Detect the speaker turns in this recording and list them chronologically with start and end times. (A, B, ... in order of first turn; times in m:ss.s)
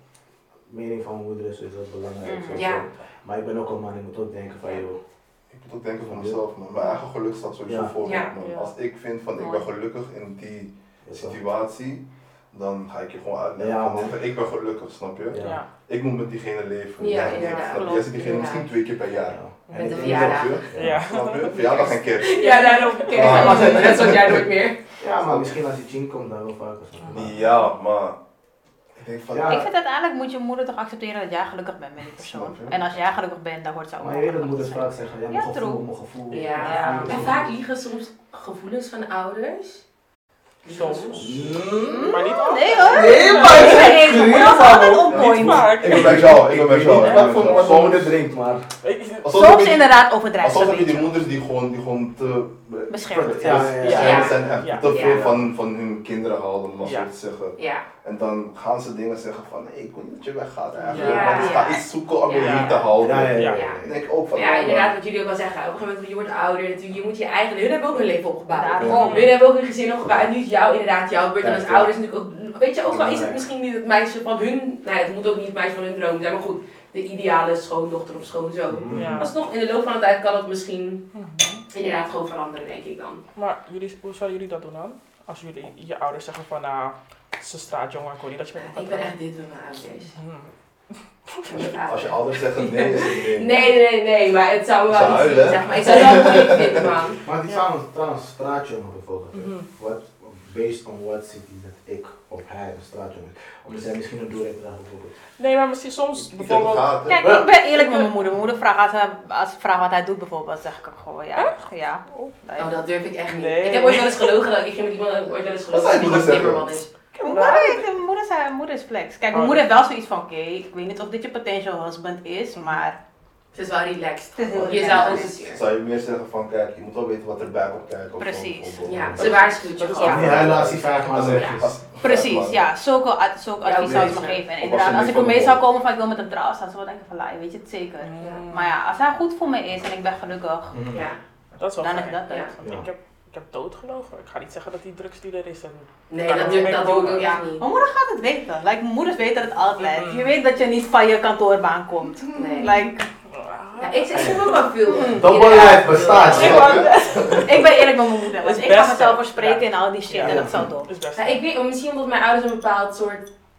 0:00.7-0:05.0 A
0:02.2-0:02.6 B
0:02.5-0:02.9 C
0:05.5-0:22.4 D
0:06.0-0:06.4 A
0:07.7-0:08.0 A
0:08.0-0:08.3 C
0:08.4-0:08.7 E
0:09.4-0:09.7 B
0:11.1-0:11.4 A
0:13.6-0:14.1 A
0:15.3-0:15.6 A
0:15.4-0:15.7 E
0:17.0-0:18.7 C
0:17.3-0:18.3 B
0:19.3-0:21.0 A
0:19.8-0:20.6 C
0:20.8-0:23.6 E
0:21.8-0:24.8 C
0:23.1-0:24.4 D
0:23.2-0:24.0 B
0:25.0-0:27.4 A
0:25.2-0:25.6 D
0:27.1-0:28.2 D
0:29.0-0:29.7 D
0:29.3-0:29.7 A
0:29.5-0:35.8 B
0:32.2-0:32.8 D
0:34.0-0:37.5 A
0:36.3-0:39.8 C
0:36.4-0:37.2 E
0:36.6-0:37.2 B
0:40.6-0:41.4 C
0:40.7-0:44.5 E
0:41.2-0:42.2 A
0:41.8-0:45.8 B
0:42.9-0:45.3 A
0:45.1-0:48.2 D
0:45.1-0:48.0 E
0:45.8-0:48.7 A
0:48.8-0:49.3 E
0:49.2-1:04.9 D
0:49.3-0:51.2 B
0:52.9-0:53.8 B
0:53.2-0:55.4 A
0:53.8-0:54.9 E
0:53.9-0:55.3 C
0:56.8-0:57.1 E
0:57.6-0:57.9 C
1:00.9-1:01.4 E
1:00.9-1:02.9 C
1:01.0-1:01.8 B
1:02.4-1:03.6 E
1:03.0-1:04.0 A
1:03.5-1:03.8 C
1:04.3-1:21.0 C
1:08.5-1:09.3 B
1:08.8-1:09.1 D
1:08.9-1:09.3 E
1:11.4-1:11.9 A
1:12.9-1:13.4 A
1:18.7-1:19.3 A
1:18.9-1:19.3 E
1:21.1-1:21.6 E
1:21.7-1:23.2 C
1:23.4-1:29.2 E
1:28.6-1:30.2 C
1:30.2-1:30.5 E
1:31.3-1:31.6 E
1:31.5-1:37.2 C
1:31.8-1:33.7 D
1:34.9-1:37.0 D
1:37.2-1:45.1 A
1:39.3-1:39.7 E
1:45.4-1:46.9 E
1:46.2-1:47.3 D
1:47.1-1:52.8 B
1:47.2-1:47.5 A
1:47.7-1:48.1 E
1:52.6-1:57.7 C
1:53.3-1:54.3 E
1:55.7-1:56.8 D
1:57.2-2:03.0 B
1:59.3-1:59.6 E
2:03.5-2:05.6 C
2:04.4-2:05.3 B
2:04.6-2:09.5 D
2:08.2-2:09.3 B
2:08.9-2:10.6 C
2:09.6-2:10.2 E
2:10.0-2:11.7 A
2:10.0-2:12.6 D
2:12.0-2:20.8 B
2:13.6-2:14.5 C
2:13.8-2:14.1 A
2:13.9-2:15.6 D
2:18.0-2:18.7 E
2:20.7-2:21.0 A
2:20.9-2:21.2 C
2:21.6-2:27.4 E
2:21.8-2:22.5 B
2:26.1-2:27.6 C
2:26.4-2:26.7 B
2:27.2-2:33.1 B
2:29.8-2:30.3 E
2:32.4-2:32.8 C
2:33.3-2:34.6 E
2:33.8-2:36.8 C
2:34.9-2:35.8 B
2:35.1-2:36.8 A
2:36.2-2:37.5 D
2:36.2-2:37.6 E
2:36.7-2:40.9 B
2:38.4-2:41.4 E
2:40.2-2:40.7 A
2:41.2-2:43.3 C